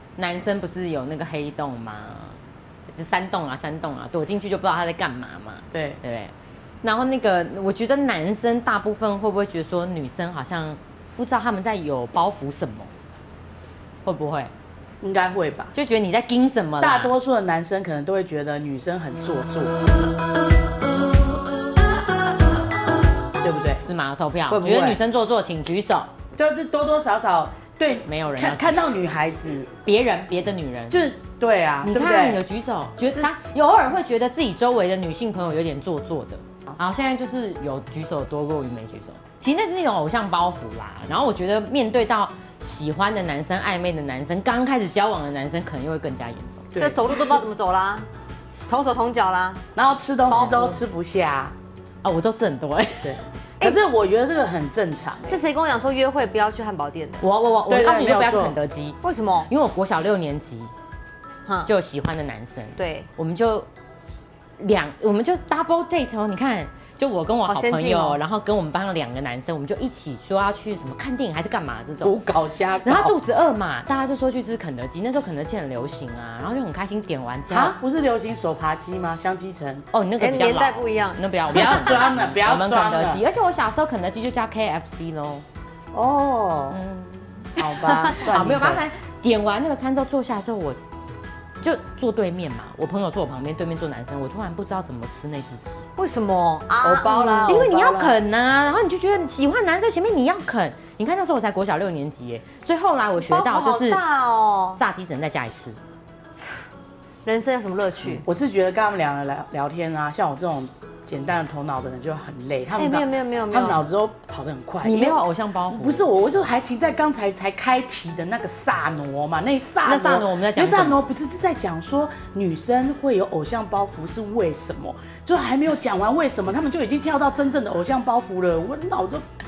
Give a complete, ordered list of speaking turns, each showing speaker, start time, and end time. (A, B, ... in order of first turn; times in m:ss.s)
0:00.2-0:02.4 A
0:02.9-0:12.9 A
0:05.7-0:06.0 B
0:14.0-0:14.5 A
0:15.0-0:15.7 B
0:15.7-0:17.1 A
0:16.8-0:19.8 B
0:23.4-0:23.8 B
0:23.8-0:26.1 A
0:24.5-0:25.0 B
0:26.4-0:29.7 B
0:28.1-0:28.8 A
0:29.8-0:31.1 A
0:30.9-0:32.4 B
0:31.8-0:46.7 A
0:46.7-0:47.3 B
0:46.8-0:48.1 C
0:48.7-0:49.6 C
0:49.8-0:51.5 B
0:50.3-0:50.8 C
0:52.0-0:53.2 A
0:53.0-0:55.4 B
0:55.2-0:57.2 C
0:57.2-1:00.7 A
0:57.7-0:58.6 B
0:59.0-0:59.5 C
1:01.7-1:03.7 A
1:02.8-1:03.1 C
1:04.6-1:12.1 A
1:07.4-1:08.2 C
1:12.0-1:13.2 B
1:12.8-1:17.8 A
1:17.5-1:19.8 B
1:19.9-1:25.4 A
1:20.2-1:22.1 C
1:21.5-1:23.2 B
1:25.9-1:26.8 B
1:26.7-1:27.4 A
1:27.6-1:28.8 B
1:27.6-1:28.2 C
1:28.1-1:30.8 A
1:31.6-1:35.8 A
1:36.0-1:37.6 C
1:36.8-1:38.2 B
1:37.5-1:44.0 A
1:43.3-1:44.8 C
1:44.8-1:45.8 A
1:47.2-1:48.2 C
1:48.2-2:09.2 B
1:52.8-1:53.8 C
1:54.8-1:56.1 A
1:59.8-2:01.0 A